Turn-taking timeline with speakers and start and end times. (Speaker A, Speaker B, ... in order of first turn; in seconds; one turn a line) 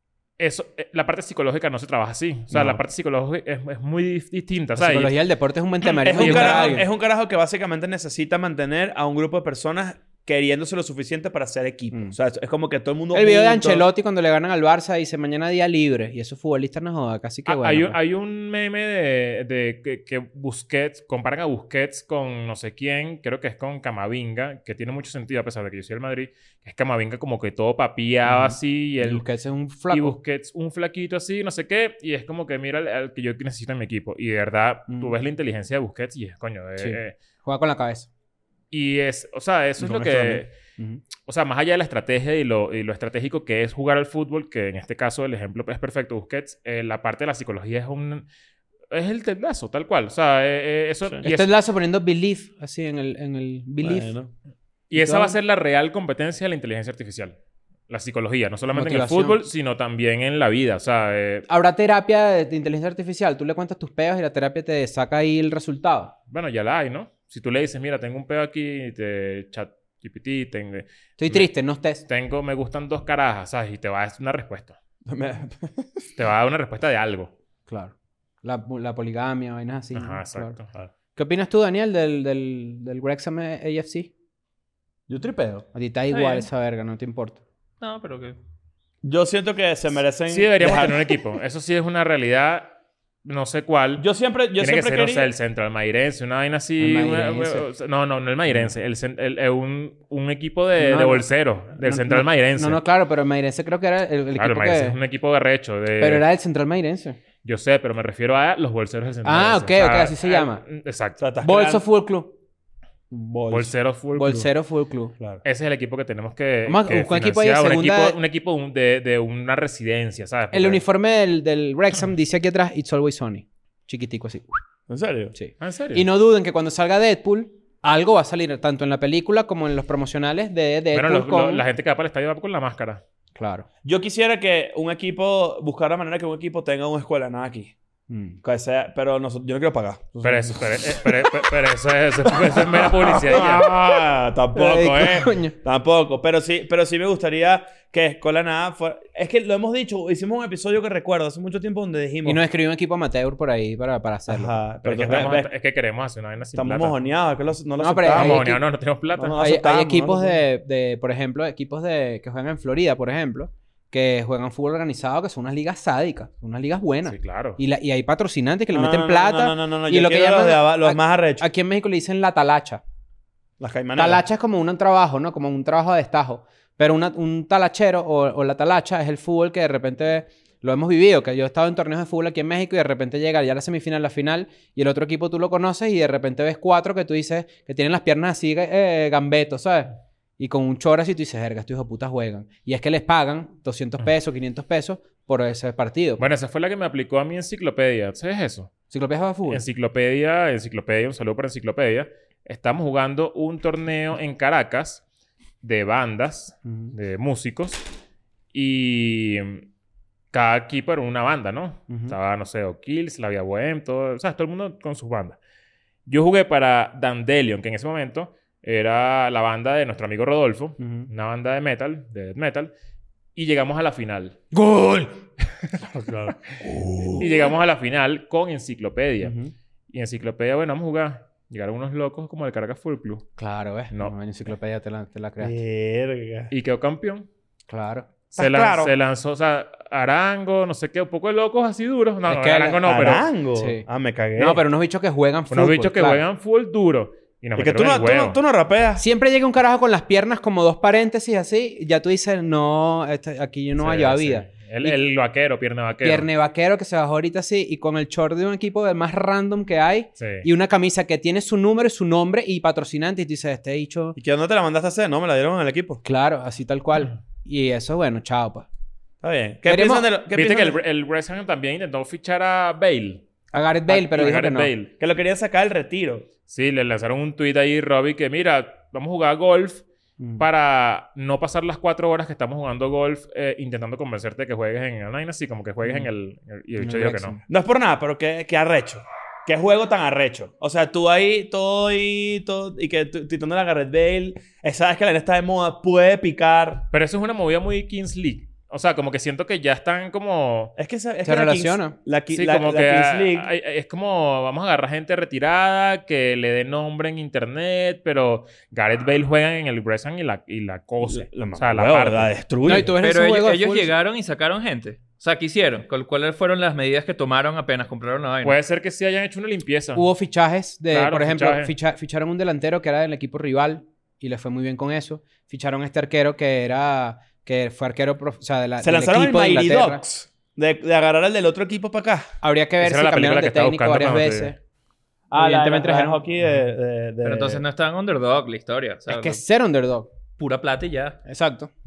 Speaker A: 0.4-5.1
Speaker B: 2.5-2.8
Speaker B: 4.8-6.8
Speaker C: 6.0-13.8
Speaker A: 6.1-6.8
Speaker B: 13.1-18.0
Speaker A: 17.4-29.2
Speaker B: 28.2-30.2
Speaker A: 29.9-37.1
Speaker B: 34.9-35.1
Speaker B: 36.8-38.1
Speaker A: 38.7-40.5
Speaker B: 39.8-41.0
Speaker A: 41.2-48.2
Speaker A: 48.9-51.5
Speaker B: 51.2-54.1
Speaker C: 53.8-54.3
Speaker A: 54.9-57.4
Speaker B: 55.0-55.3
Speaker A: 57.9-61.5
Speaker B: 58.7-59.4
Speaker B: 61.5-66.1
Speaker A: 66.3-71.5
Speaker B: 71.2-72.0
Speaker A: 72.0-74.8
Speaker C: 75.0-76.0
Speaker A: 76.2-77.3
Speaker B: 77.7-80.5
Speaker A: 79.9-80.7
Speaker B: 81.2-84.1
Speaker C: 85.1-85.7
Speaker B: 85.7-87.4
Speaker D: 86.1-86.5
Speaker D: 87.8-88.3
Speaker C: 89.0-91.2
Speaker A: 90.3-102.8
Speaker C: 94.0-95.3
Speaker B: 96.8-97.6
Speaker B: 100.8-101.3
Speaker B: 101.8-105.0
Speaker A: 104.3-106.2
Speaker B: 106.0-107.2
Speaker A: 107.4-111.2
Speaker B: 109.2-110.6
Speaker C: 111.2-111.8
Speaker B: 111.4-112.3
Speaker C: 113.1-113.7
Speaker A: 113.5-114.5
Speaker B: 114.2-115.1
Speaker A: 115.4-120.8
Speaker B: 116.7-118.2
Speaker B: 120.5-124.6
Speaker C: 124.9-125.3
Speaker B: 125.3-131.6
Speaker A: 125.6-126.0
Speaker A: 130.9-133.0
Speaker B: 133.3-133.7
Speaker C: 133.8-137.7
Speaker B: 138.1-138.4
Speaker C: 138.4-141.3
Speaker A: 140.2-143.8
Speaker C: 142.2-152.4
Speaker B: 144.5-145.5
Speaker B: 152.2-155.1
Speaker C: 154.3-155.5
Speaker A: 154.8-157.0
Speaker C: 156.6-158.6
Speaker B: 157.8-158.6
Speaker A: 158.1-159.4
Speaker C: 159.1-160.4
Speaker B: 159.4-172.8
Speaker A: 167.1-167.6
Speaker C: 168.7-171.4
Speaker C: 173.6-174.2
Speaker B: 173.9-196.2
Speaker A: 196.2-198.7
Speaker B: 198.9-199.6
Speaker A: 199.5-205.0
Speaker A: 205.6-207.8
Speaker B: 206.7-206.9
Speaker A: 208.5-209.7
Speaker A: 210.3-215.4
Speaker B: 211.9-212.1
Speaker A: 216.1-222.7
Speaker B: 220.8-221.1
Speaker A: 223.3-224.4
Speaker B: 224.5-225.2
Speaker A: 225.8-226.4
Speaker C: 226.6-227.5
Speaker A: 227.2-229.3
Speaker B: 229.2-229.5
Speaker A: 229.9-233.2
Speaker B: 233.4-235.6
Speaker C: 235.4-236.5
Speaker A: 236.5-237.3
Speaker B: 237.7-238.1
Speaker A: 238.3-243.2
Speaker C: 238.4-238.9
Speaker B: 242.3-243.8
Speaker C: 242.9-244.6
Speaker B: 244.4-246.2
Speaker A: 245.5-248.4
Speaker C: 247.6-249.0
Speaker B: 249.0-255.0
Speaker A: 253.8-256.3
Speaker B: 256.0-264.2
Speaker A: 260.2-260.5
Speaker C: 264.1-266.0
Speaker B: 266.0-268.6
Speaker C: 269.2-270.8
Speaker B: 269.7-270.1
Speaker A: 270.3-273.2
Speaker B: 273.5-274.7
Speaker A: 273.9-274.9
Speaker C: 275.0-276.2
Speaker A: 276.5-279.8
Speaker B: 280.2-280.4
Speaker A: 280.4-287.4
Speaker B: 286.8-287.4
Speaker C: 287.5-296.8
Speaker A: 296.9-300.7
Speaker C: 300.8-303.5
Speaker B: 301.2-301.9
Speaker A: 302.3-312.3
Speaker C: 311.0-312.9
Speaker B: 312.6-313.9
Speaker D: 313.0-318.6
Speaker A: 318.4-320.1
Speaker B: 319.9-330.0
Speaker A: 320.9-321.7
Speaker C: 328.8-332.3
Speaker B: 332.4-334.6
Speaker A: 332.8-334.5
Speaker C: 335.3-337.6
Speaker B: 335.3-336.2
Speaker D: 337.2-339.4
Speaker B: 339.1-340.1
Speaker D: 340.4-341.2
Speaker B: 341.2-341.7